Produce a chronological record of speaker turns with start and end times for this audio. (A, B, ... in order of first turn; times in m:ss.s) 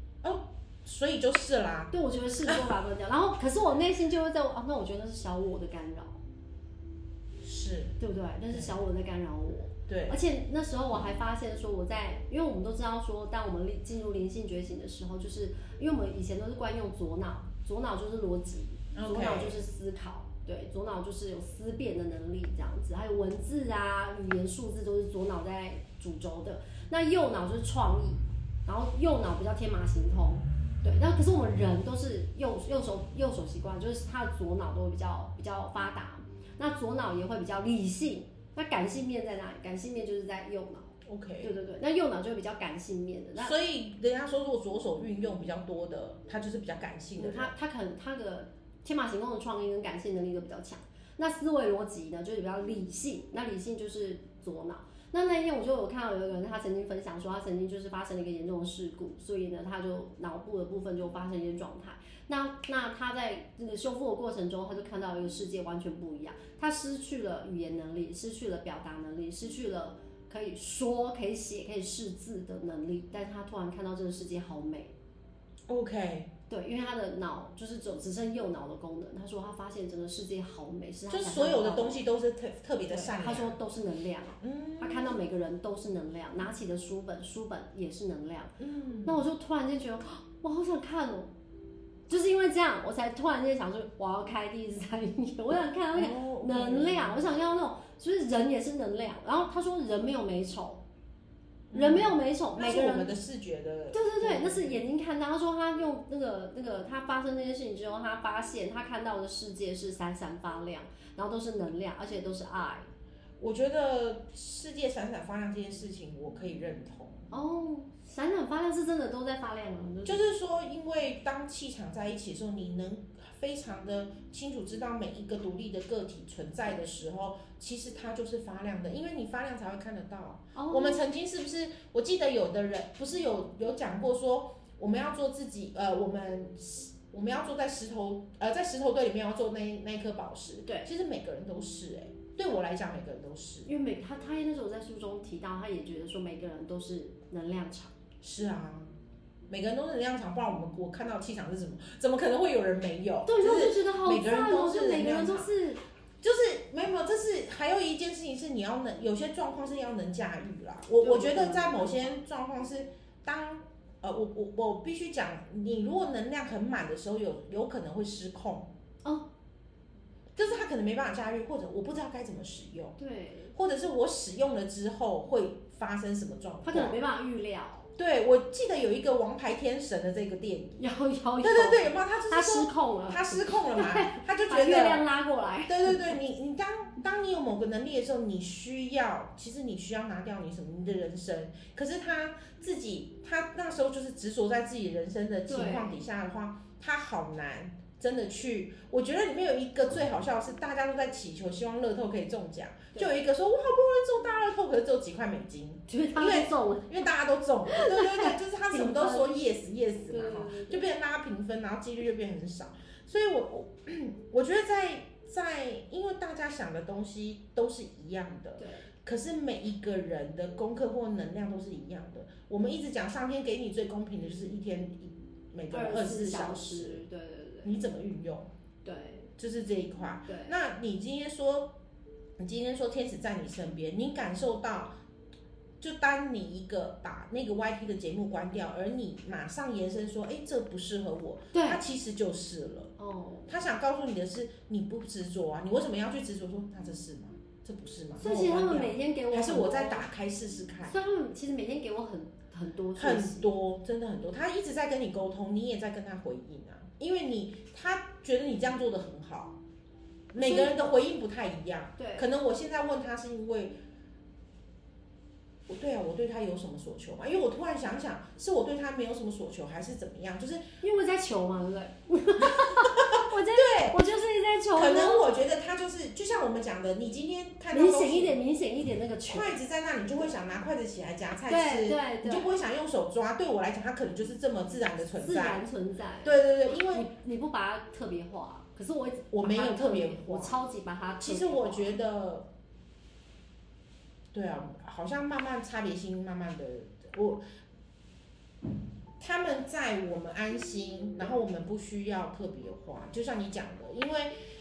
0:00.2-0:01.9 A
0:01.9-0:06.2 B
0:07.4-0:08.0 A
0:08.0-0:43.6 B
0:08.5-0:08.8 A
0:09.9-0:10.2 A
0:19.0-0:19.6 A
0:41.0-0:41.5 A
0:43.4-0:47.5 A
0:47.2-1:14.9 B
1:15.7-1:16.3 A
1:16.5-1:22.0 B
1:21.1-1:23.6 A
1:22.9-1:31.3 B
1:24.4-1:25.2 A
1:28.6-1:29.2 A
1:32.1-1:40.8 B
1:35.9-1:37.2 A
1:41.7-1:44.8 A
1:41.7-1:43.1 B
1:43.9-1:52.9 B
1:53.4-1:57.3 A
1:57.3-2:00.2 B
2:00.0-2:23.7 A
2:10.6-2:11.0 B
2:23.7-2:27.9 B
2:28.2-2:28.9 A
2:29.5-2:35.5 A
2:33.3-2:35.8 B
2:36.2-2:48.7 A
2:41.0-2:42.2 B
2:50.4-2:53.0 A
2:53.0-2:53.5 B
2:53.5-2:57.0 A
2:56.6-2:57.9 B
2:58.0-3:00.8 A
3:00.8-3:06.2 B
3:01.4-3:05.1 A
3:05.7-3:47.0 A
3:15.5-3:16.0 B
3:25.9-3:27.0 B
3:27.7-3:29.5 B
3:30.1-3:30.9 B
3:38.6-3:38.9 B
3:45.7-3:47.8 B
3:47.6-3:48.5 A
3:48.8-3:49.3 B
3:49.4-3:51.8 A
3:50.3-3:50.6 B
3:52.4-3:55.0 A
3:55.8-4:02.9 A
4:01.5-4:01.8 B
4:03.0-4:03.5 B
4:03.5-4:11.0 A
4:08.2-4:10.1 B
4:10.9-4:13.5 B
4:13.0-4:19.6 A
4:20.3-4:23.8 A
4:20.4-4:21.0 B
4:22.0-4:22.3 B
4:25.7-4:30.7 A
4:30.8-4:35.4 B
4:32.4-4:34.0 A
4:34.7-4:38.4 A
4:37.7-4:39.5 B
4:39.3-4:45.6 A
4:41.5-4:42.5 B
4:45.2-4:52.0 B
4:46.2-4:47.1 A
4:49.3-4:50.6 A
4:51.2-4:52.5 A
4:54.3-4:57.4 A
4:59.2-5:04.3 A